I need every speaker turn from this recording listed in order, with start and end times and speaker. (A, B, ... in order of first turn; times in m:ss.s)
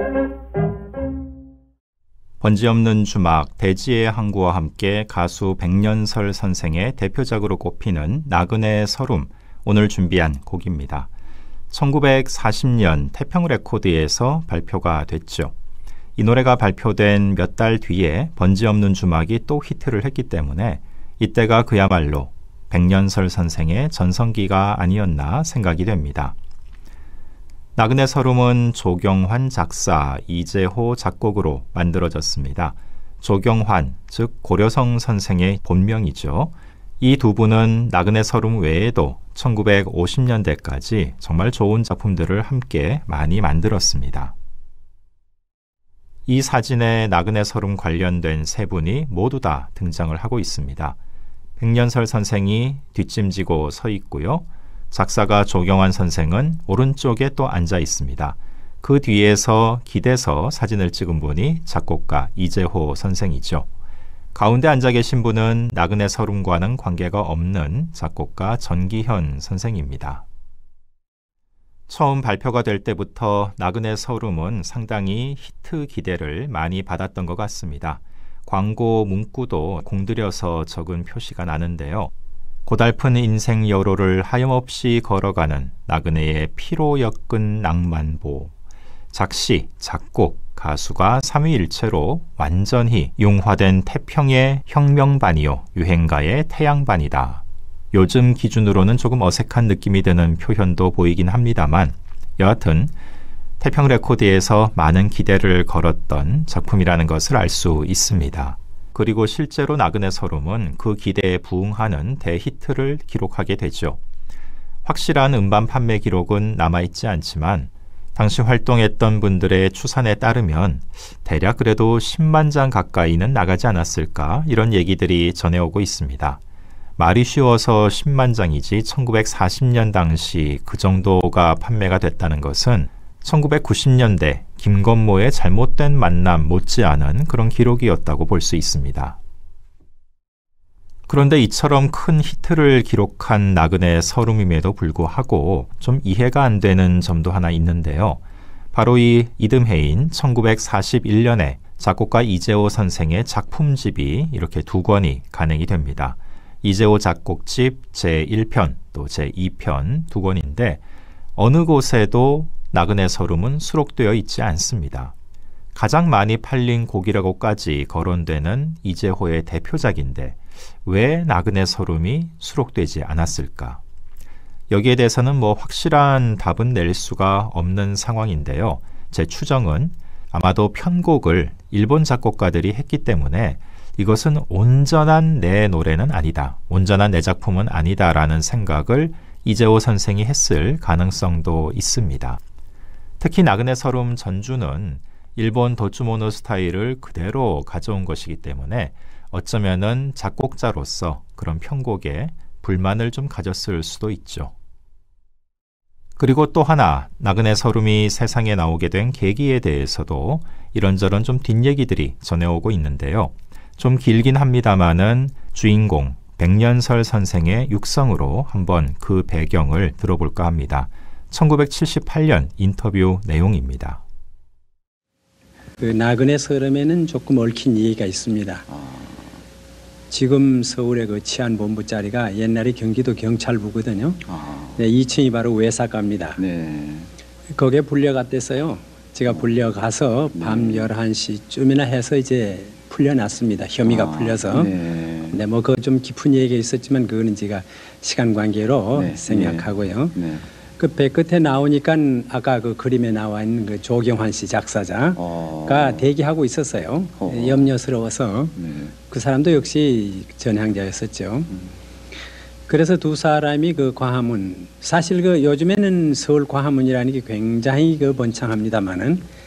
0:02.4-0:11.1 A
0:11.7-0:15.5 A
0:16.2-0:26.4 A
0:27.8-0:44.3 A
0:46.3-0:51.0 A
0:51.6-1:03.7 A
1:04.4-1:10.2 A
1:11.9-1:22.1 A
1:22.7-1:28.5 A
1:29.1-1:42.9 A
1:43.6-1:54.0 A
1:54.8-2:06.4 A
2:07.0-2:19.2 A
2:21.1-2:28.2 A
2:28.7-2:40.8 A
2:41.4-2:45.1 A
2:45.8-2:53.8 A
2:54.7-3:12.4 A
3:13.2-3:24.5 A
3:26.2-3:44.0 A
3:45.8-3:48.6 B
3:48.7-3:49.3 C
3:50.1-3:56.4 B
3:54.3-3:54.7 C
3:56.4-3:57.1 C
3:57.5-4:04.7 B
4:00.4-4:00.8 C
4:03.9-4:05.4 C
4:05.3-4:10.2 B
4:09.0-4:10.4 C
4:10.8-4:21.5 B
4:15.2-4:15.9 C
4:17.2-4:17.6 C
4:18.6-4:18.9 C
4:22.7-4:29.2 B